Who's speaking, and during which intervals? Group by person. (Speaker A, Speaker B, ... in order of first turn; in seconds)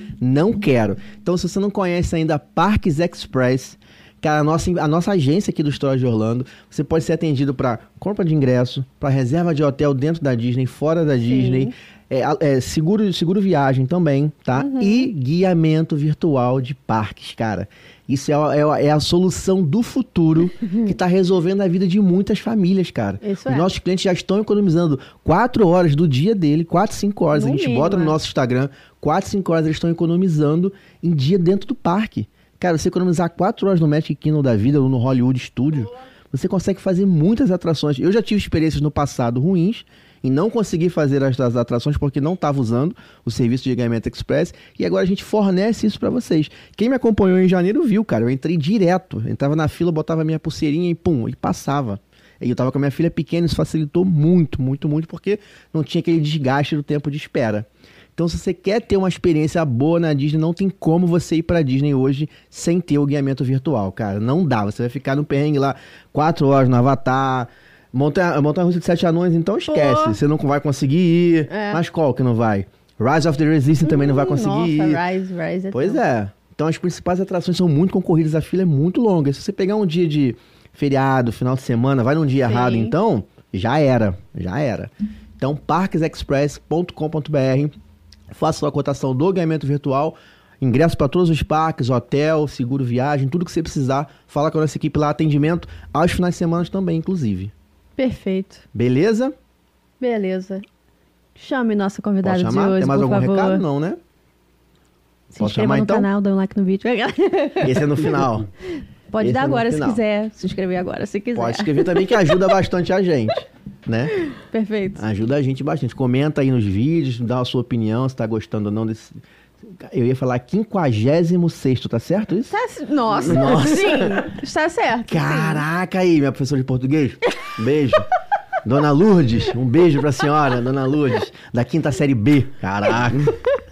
Speaker A: 0.2-75.0, 75.7-87.7, 88.3-97.5, 98.7-99.3, 102.2-104.0, 105.4-106.1, 107.6-108.5, 109.2-110.0, 111.3-114.1, 115.0-122.5, 123.2-124.2, 125.1-128.1, 128.6-133.4
Speaker B: 11.2-11.7, 14.6-15.1, 23.2-23.7, 27.3-28.1, 69.7-70.2, 71.5-71.8, 73.8-76.0, 82.4-82.9, 98.0-98.6, 100.0-100.6, 101.3-103.6, 105.3-108.0, 109.1-112.4, 114.3-115.0, 122.5-125.6